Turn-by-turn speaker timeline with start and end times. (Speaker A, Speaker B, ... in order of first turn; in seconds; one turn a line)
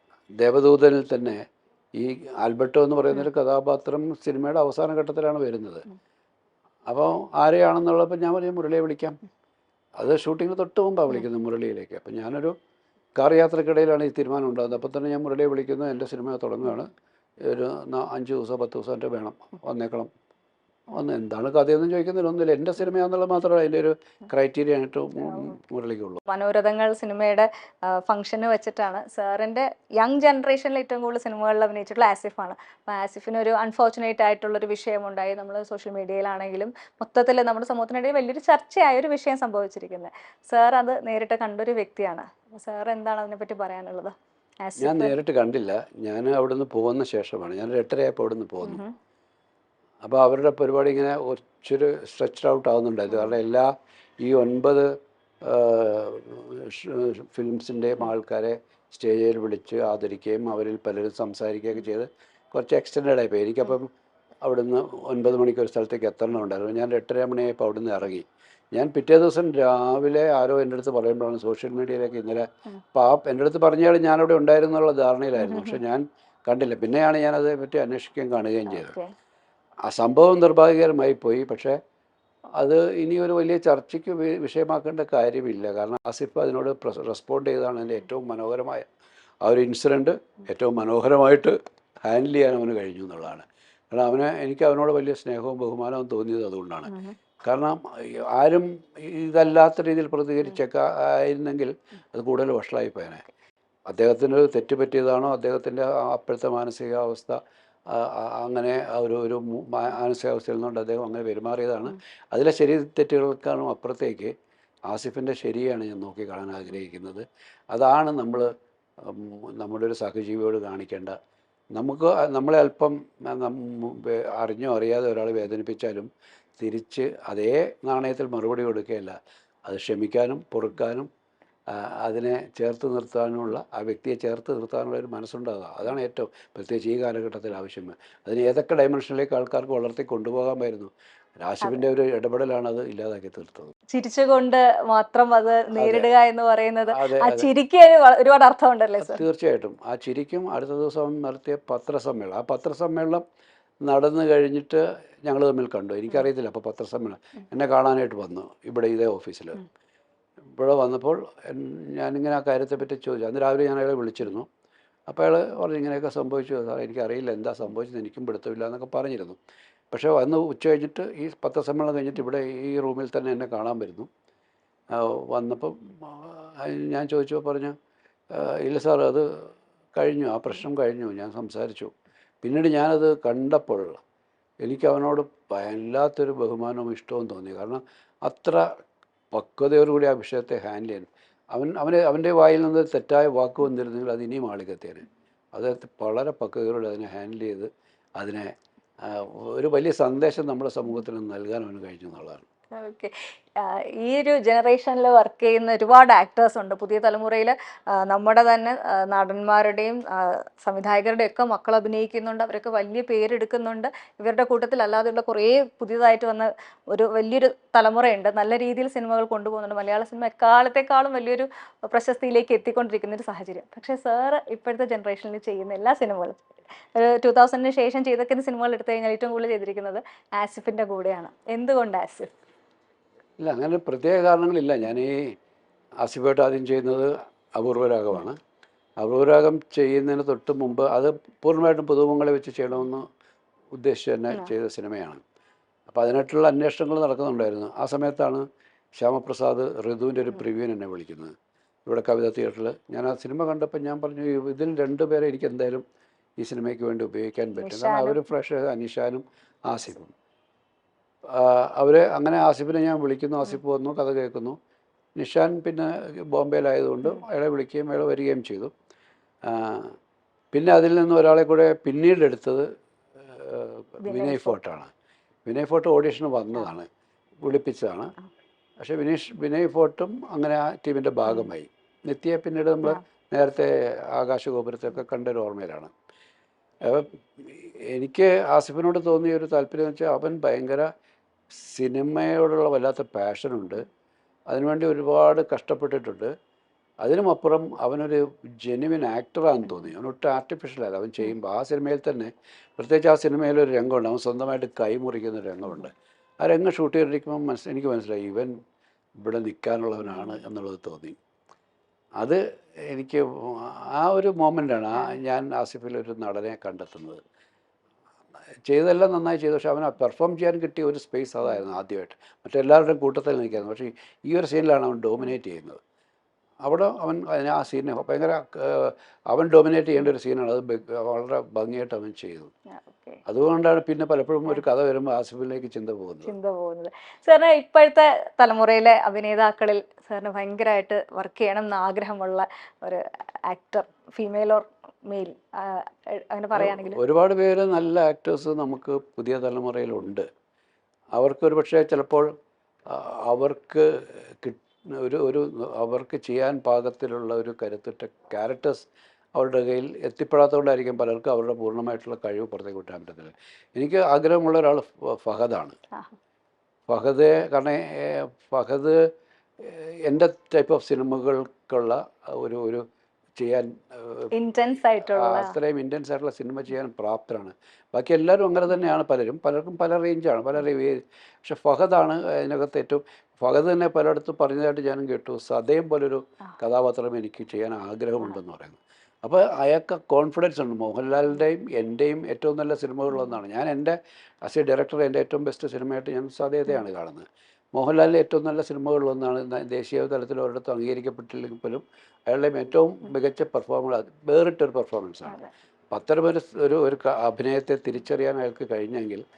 Speaker A: 0.4-1.4
Speaker A: 1.9-5.8
Speaker A: 6.9-9.2
Speaker A: 10.0-12.5
Speaker A: 13.2-16.9
Speaker A: 17.4-20.1
Speaker A: 20.9-26.2
Speaker B: 25.3-25.5
Speaker B: 26.3-45.2
Speaker A: 44.8-48.8
Speaker B: 48.6-48.9
Speaker A: 50.0-53.7
Speaker A: 54.2-54.9
Speaker A: 55.4-63.9
Speaker A: 64.4-78.9
Speaker B: 75.4-75.8
Speaker B: 78.7-79.1
Speaker A: 79.8-81.8
Speaker A: 82.6-88.9
Speaker A: 89.4-103.2
Speaker B: 96.9-97.2
Speaker A: 103.9-107.4
Speaker A: 107.9-114.3
Speaker A: 114.9-121.2
Speaker A: 121.7-131.1
Speaker A: 131.7-143.7
Speaker B: 143.9-149.2
Speaker A: 145.7-146.1
Speaker A: 146.9-147.5
Speaker A: 149.0-153.2
Speaker A: 153.8-159.6
Speaker A: 160.5-164.5
Speaker A: 165.1-169.4
Speaker A: 169.9-174.1
Speaker A: 174.9-177.7
Speaker A: 178.3-184.0
Speaker A: 184.6-188.7
Speaker A: 189.3-202.4
Speaker B: 202.7-226.4
Speaker B: 226.9-232.3
Speaker A: 233.4-235.3
Speaker A: 236.0-238.4
Speaker A: 239.0-243.1
Speaker A: 243.7-245.2
Speaker A: 245.9-248.4
Speaker A: 249.0-251.3
Speaker A: 251.9-255.8
Speaker A: 256.4-260.1
Speaker B: 257.6-258.2
Speaker A: 261.3-264.6
Speaker A: 265.1-268.7
Speaker A: 269.5-269.9
Speaker A: 270.5-272.6
Speaker A: 273.2-274.9
Speaker B: 274.0-274.6
Speaker A: 275.4-276.9
Speaker A: 277.4-278.1
Speaker A: 278.8-285.9
Speaker A: 286.8-290.9
Speaker A: 291.5-293.9
Speaker A: 294.5-296.3
Speaker A: 297.0-308.5
Speaker A: 309.2-311.2
Speaker B: 310.1-310.4
Speaker A: 312.2-317.2
Speaker A: 318.7-325.8
Speaker A: 326.6-332.5
Speaker B: 332.7-333.2
Speaker A: 333.2-336.3
Speaker B: 336.2-347.0
Speaker A: 346.5-350.2
Speaker A: 351.1-352.3
Speaker A: 352.9-365.8
Speaker A: 366.9-368.9
Speaker A: 369.6-372.8
Speaker A: 373.4-374.3
Speaker B: 374.3-375.6
Speaker A: 375.1-409.2